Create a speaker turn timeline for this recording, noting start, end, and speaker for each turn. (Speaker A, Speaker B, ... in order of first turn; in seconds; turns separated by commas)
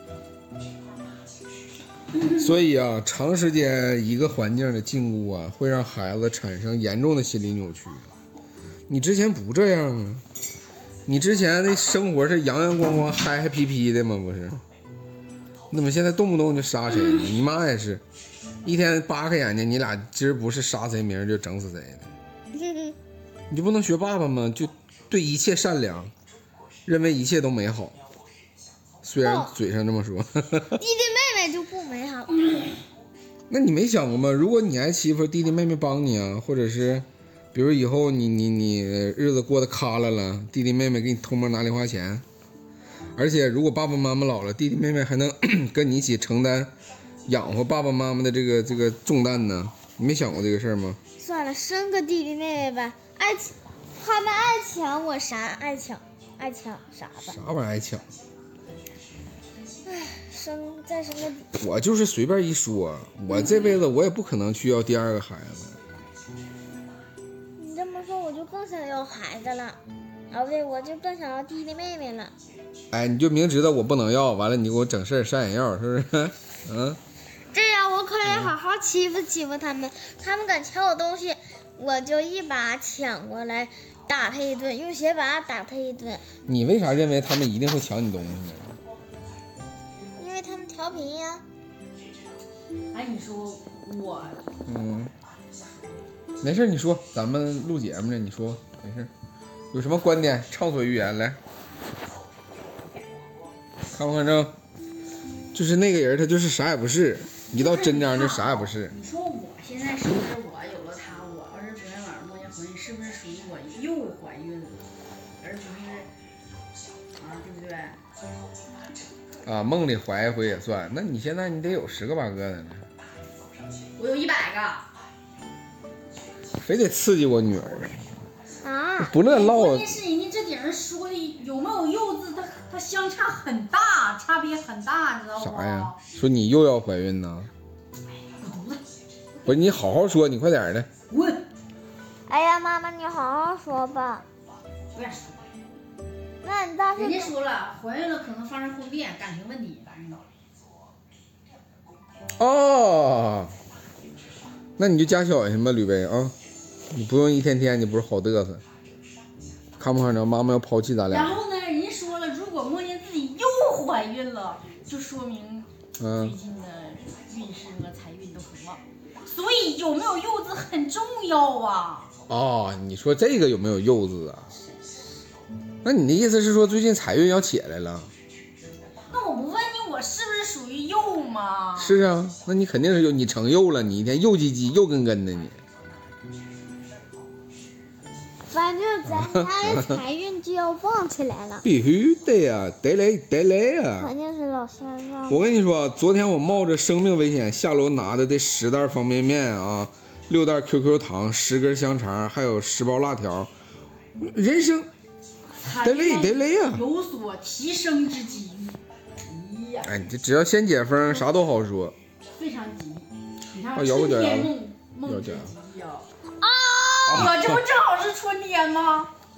Speaker A: 2.2-8.1, Speaker A: 8.9-10.2, Speaker A: 11.1-14.6, Speaker A: 15.7-18.0, Speaker A: 18.6-22.1, Speaker B: 22.5-22.9, Speaker A: 23.5-26.1, Speaker A: 26.9-27.9, Speaker A: 29.0-30.8, Speaker B: 29.2-29.5, Speaker B: 30.8-32.6, Speaker A: 33.5-42.2, Speaker A: 43.1-46.7, Speaker A: 47.2-51.0, Speaker B: 51.2-57.4, Speaker A: 57.2-58.1, Speaker B: 59.8-61.5, Speaker A: 61.6-65.8, Speaker B: 67.6-69.8, Speaker B: 70.3-72.3, Speaker A: 72.9-77.0, Speaker B: 77.5-86.2, Speaker A: 78.2-78.5, Speaker A: 86.5-88.8, Speaker B: 90.2-91.4, Speaker C: 92.9-94.4, Speaker A: 94.7-95.1, Speaker A: 96.4-99.1, Speaker A: 99.7-101.4, Speaker A: 103.9-104.5, Speaker A: 105.5-108.9, Speaker C: 107.5-114.9, Speaker C: 115.4-116.1, Speaker C: 117.2-118.0, Speaker A: 119.4-122.8, Speaker C: 124.0-124.9, Speaker A: 126.6-128.0, Speaker B: 128.6-129.2, Speaker A: 129.0-129.9, Speaker C: 129.2-136.0, Speaker A: 135.4-137.5, Speaker C: 138.4-138.8, Speaker A: 139.4-140.9, Speaker C: 141.1-141.5, Speaker B: 142.3-144.2, Speaker C: 144.9-145.4, Speaker B: 146.4-147.3, Speaker C: 146.9-150.2, Speaker A: 152.4-153.5, Speaker A: 154.8-156.3, Speaker A: 156.9-158.6, Speaker A: 159.8-161.3, Speaker C: 161.1-172.1, Speaker A: 166.0-166.4, Speaker A: 172.3-174.5, Speaker A: 175.8-178.1, Speaker C: 179.1-182.0, Speaker A: 181.8-185.6, Speaker B: 188.5-191.7, Speaker A: 189.1-190.0, Speaker A: 191.6-194.1, Speaker B: 194.0-195.5, Speaker A: 195.3-203.5, Speaker A: 204.2-204.9, Speaker C: 205.6-209.9, Speaker A: 205.8-206.8, Speaker A: 209.8-211.9, Speaker C: 212.3-216.1, Speaker A: 213.7-215.5, Speaker B: 216.4-217.3, Speaker C: 217.1-219.1, Speaker A: 217.1-217.6